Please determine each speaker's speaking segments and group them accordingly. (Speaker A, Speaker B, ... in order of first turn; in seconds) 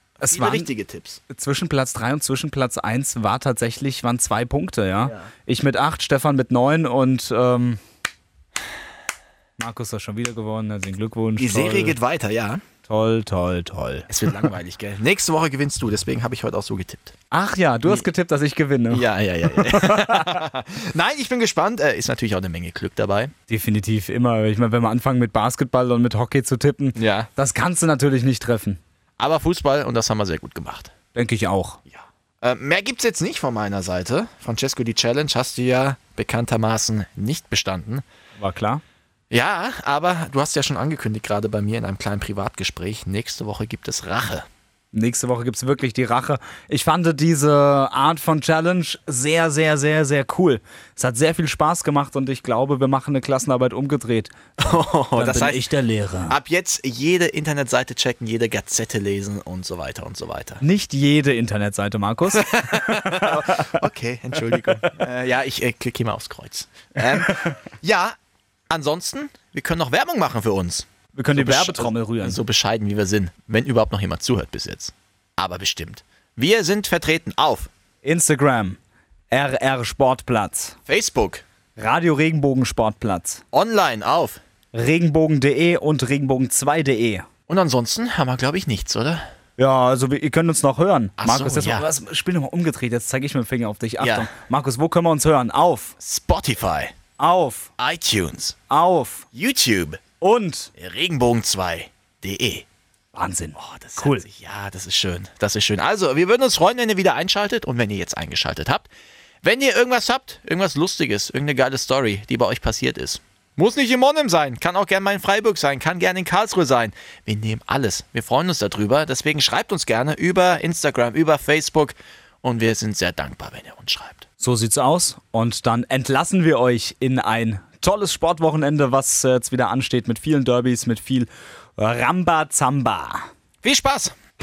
Speaker A: 0.2-0.7, 1.3-7.8, 9.6-12.0, 12.8-14.1, 17.3-20.4, 23.5-28.8, 31.1-31.8, 38.4-38.8, 44.9-56.3, 60.6-63.6, 71.2-72.4, 78.0-78.8, 79.3-80.8, 81.8-83.4, 84.7-87.3, 89.6-95.9, 97.2-97.7, 98.7-99.2, 100.2-100.7, 103.1-104.2, 124.4-133.3
Speaker B: 0.3-1.2, 5.0-5.3, 11.4-12.6, 14.1-17.1, 18.9-23.3, 27.0-27.3, 29.2-30.9, 31.9-38.0, 39.3-44.5, 54.6-55.7, 56.3-60.6, 62.3-68.1, 68.7-77.7, 80.9-81.4, 83.5-84.4, 87.5-89.2, 91.2-91.9, 94.0-94.3, 96.0-96.9, 97.8-98.6, 99.3-100.0, 100.8-102.6, 103.6-108.9, 109.4-124.2, 133.6-134.1